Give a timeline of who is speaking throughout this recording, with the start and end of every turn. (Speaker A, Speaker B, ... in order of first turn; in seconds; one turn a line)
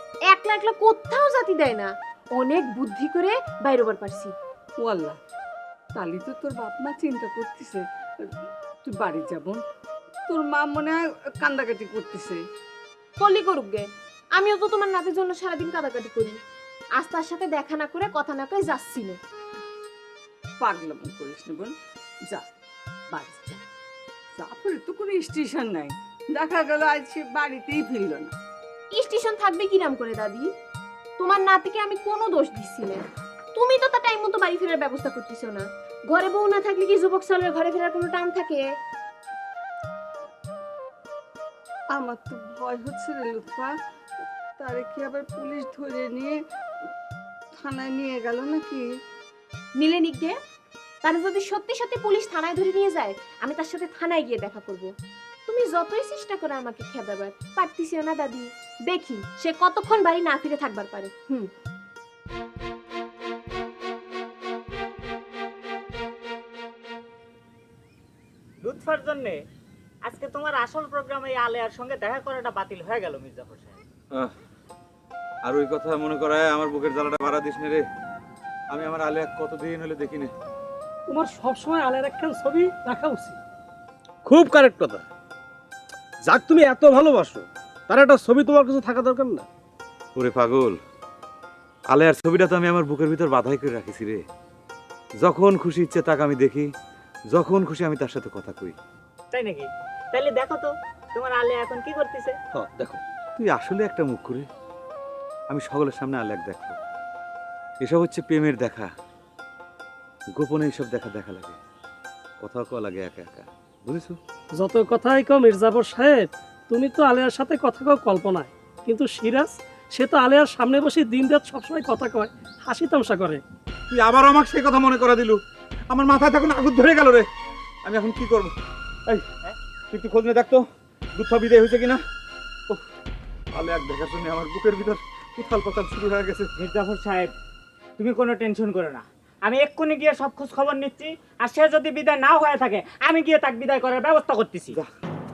Speaker A: 0.3-4.3
Speaker B: 4.8-5.2
Speaker B: 6.0-7.8
Speaker B: 8.8-9.6
Speaker B: 10.3-12.4
Speaker A: 13.2-16.4
Speaker A: 17.0-19.2
Speaker B: 20.6-21.7
Speaker B: 23.1-23.6
Speaker B: 24.4-28.3
Speaker A: 28.9-30.5
Speaker A: 31.2-33.0
Speaker A: 33.5-38.6
Speaker B: 41.9-43.7
Speaker B: 44.6-46.3
Speaker B: 47.5-48.8
Speaker A: 49.8-50.3
Speaker A: 51.0-54.9
Speaker A: 55.5-61.5
Speaker C: 68.6-69.4
Speaker C: 70.0-73.8
Speaker D: 75.4-77.8
Speaker D: 78.7-80.3
Speaker E: 81.1-83.4
Speaker F: 84.2-85.0
Speaker F: 86.2-89.5
Speaker D: 90.2-90.8
Speaker D: 91.9-94.2
Speaker D: 95.2-96.7
Speaker D: 97.3-98.8
Speaker C: 99.3-102.4
Speaker D: 102.5-104.5
Speaker D: 105.5-106.8
Speaker D: 107.8-108.9
Speaker D: 110.3-111.6
Speaker D: 112.4-114.2
Speaker E: 114.6-123.4
Speaker D: 123.9-127.3
Speaker D: 127.8-128.5
Speaker D: 129.9-130.6
Speaker D: 131.2-132.0
Speaker D: 133.5-136.5
Speaker C: 136.6-137.3
Speaker C: 138.0-144.8